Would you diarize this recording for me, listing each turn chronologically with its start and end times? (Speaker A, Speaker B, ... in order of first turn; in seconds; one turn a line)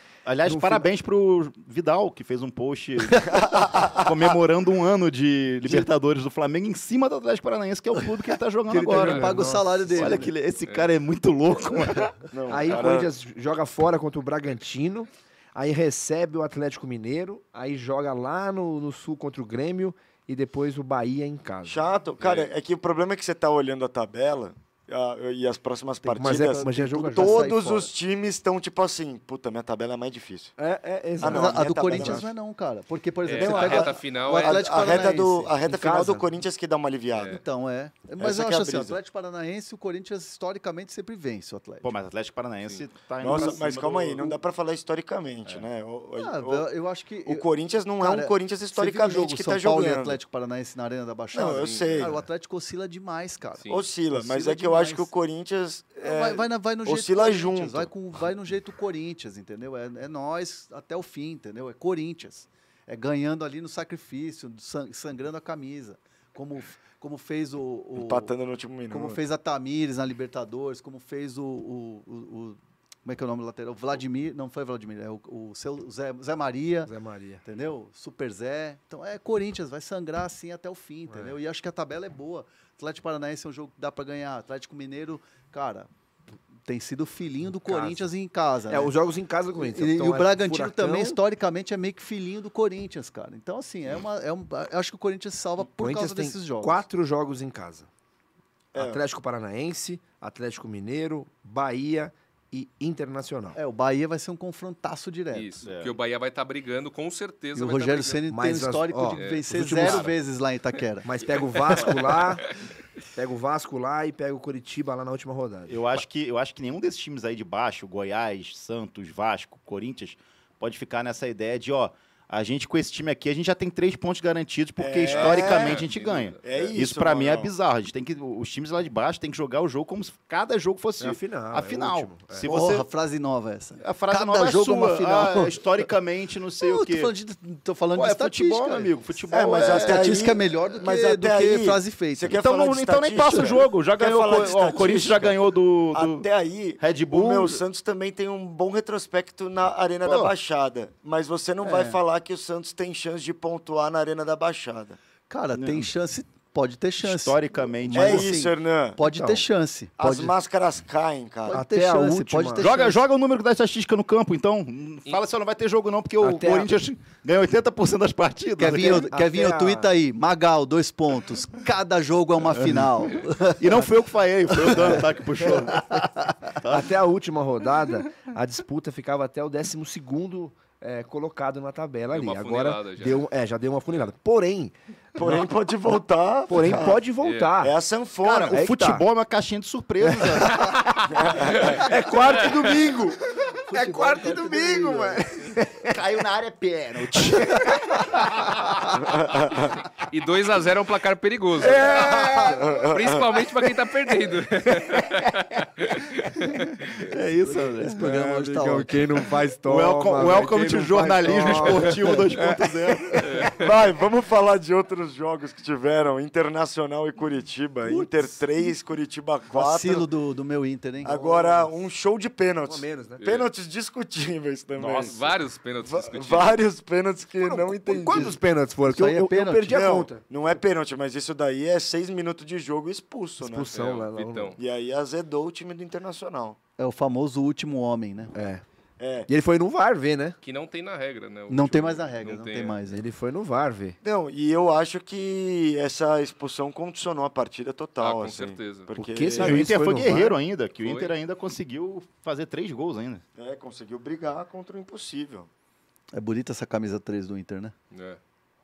Speaker A: 0.3-12.1
Speaker B: 0.4-0.9
Speaker C: 3.5-4.0
Speaker B: 8.7-10.3
Speaker D: 8.7-10.3
Speaker C: 12.3-13.1
Speaker B: 12.5-21.8
Speaker C: 21.6-30.5
Speaker E: 22.2-22.5
Speaker D: 26.0-27.9
Speaker B: 26.2-27.5
Speaker B: 30.6-32.3
Speaker C: 31.2-32.3
Speaker D: 31.2-35.5
Speaker E: 33.2-35.1
Speaker C: 33.3-37.4
Speaker B: 35.6-36.3
Speaker E: 37.1-37.4
Speaker D: 37.2-41.9
Speaker C: 38.2-39.0
Speaker A: 41.8-44.4
Speaker C: 43.2-46.7
Speaker D: 46.1-47.5
Speaker C: 47.3-50.2
Speaker D: 48.0-55.1
Speaker C: 51.3-52.1
Speaker E: 51.5-52.1
Speaker E: 53.6-53.8
Speaker C: 53.7-57.9
Speaker D: 56.0-68.3
Speaker C: 68.0-69.2
Speaker D: 68.9-85.9
Speaker B: 76.9-77.4
Speaker B: 81.1-81.4
Speaker D: 86.6-88.9
Speaker B: 87.5-88.1
Speaker B: 88.7-91.2
Speaker D: 89.5-96.8
Speaker B: 95.7-97.9
Speaker C: 98.7-99.0
Speaker B: 98.7-103.6
Speaker D: 103.5-105.5
Speaker E: 105.3-108.2
Speaker A: 105.6-106.0
Speaker D: 107.5-111.1
Speaker B: 108.3-110.1
Speaker E: 109.1-110.1
Speaker B: 111.0-112.5
Speaker B: 113.1-116.0
Speaker A: 115.7-132.9
Speaker C: 124.8-127.5
Speaker E: 125.1-126.7
Speaker B: 131.0-132.5
Speaker D: 132.4-135.9
Speaker A: 133.8-137.1
Speaker D: 136.6-138.9
Speaker A: 137.9-140.3
Speaker C: 139.3-145.4
Speaker D: 139.5-142.4
Speaker A: 142.3-146.3
Speaker C: 145.9-155.0
Speaker A: 146.8-147.6
Speaker A: 150.1-150.3
Speaker D: 151.6-152.0
Speaker D: 155.3-160.3
Speaker A: 155.6-155.9
Speaker A: 157.0-158.4
Speaker C: 157.9-159.0
Speaker B: 159.1-159.4
Speaker C: 160.0-161.6
Speaker D: 161.5-163.0
Speaker B: 161.5-162.9
Speaker A: 162.6-169.1
Speaker B: 166.2-166.7
Speaker D: 168.6-173.9
Speaker B: 168.7-169.9
Speaker A: 172.5-176.9
Speaker D: 174.5-175.0
Speaker B: 176.7-184.7
Speaker E: 182.1-183.2
Speaker C: 185.2-187.0
Speaker B: 186.5-187.8
Speaker E: 187.2-187.5
Speaker C: 187.6-188.6
Speaker B: 188.3-189.1
Speaker A: 188.3-191.0
Speaker B: 190.0-190.8
Speaker C: 191.1-191.8
Speaker E: 191.6-192.8
Speaker B: 191.8-195.9
Speaker D: 193.7-195.2
Speaker A: 195.9-198.9
Speaker B: 197.2-198.0
Speaker C: 199.1-199.8
Speaker E: 200.1-201.9
Speaker B: 201.6-202.6
Speaker C: 201.8-203.2
Speaker E: 202.9-206.9
Speaker D: 207.1-209.1
Speaker A: 207.6-207.8
Speaker B: 207.6-213.2
Speaker A: 209.6-213.5
Speaker D: 211.8-212.4
Speaker E: 213.2-213.5
Speaker C: 213.6-220.1
Speaker D: 217.8-218.4
Speaker D: 219.5-221.2
Speaker C: 221.0-225.2
Speaker B: 221.1-221.7
Speaker B: 222.7-223.2
Speaker E: 223.2-223.5
Speaker A: 224.8-225.2
Speaker E: 225.0-226.6
Speaker C: 225.8-228.4
Speaker B: 227.4-230.3
Speaker D: 228.9-229.8
Speaker C: 229.7-233.7
Speaker B: 233.4-234.6
Speaker E: 233.7-234.6
Speaker C: 234.6-236.6
Speaker D: 236.8-238.3
Speaker B: 238.3-238.6
Speaker C: 239.0-239.3
Speaker B: 239.3-240.4
Speaker E: 240.4-242.8
Speaker D: 241.5-243.1
Speaker B: 242.9-244.0
Speaker C: 244.0-249.7
Speaker E: 248.0-248.9
Speaker B: 248.9-250.4
Speaker A: 249.4-253.2
Speaker E: 250.8-251.1
Speaker C: 253.4-255.5
Speaker D: 256.1-257.7
Speaker E: 257.9-258.2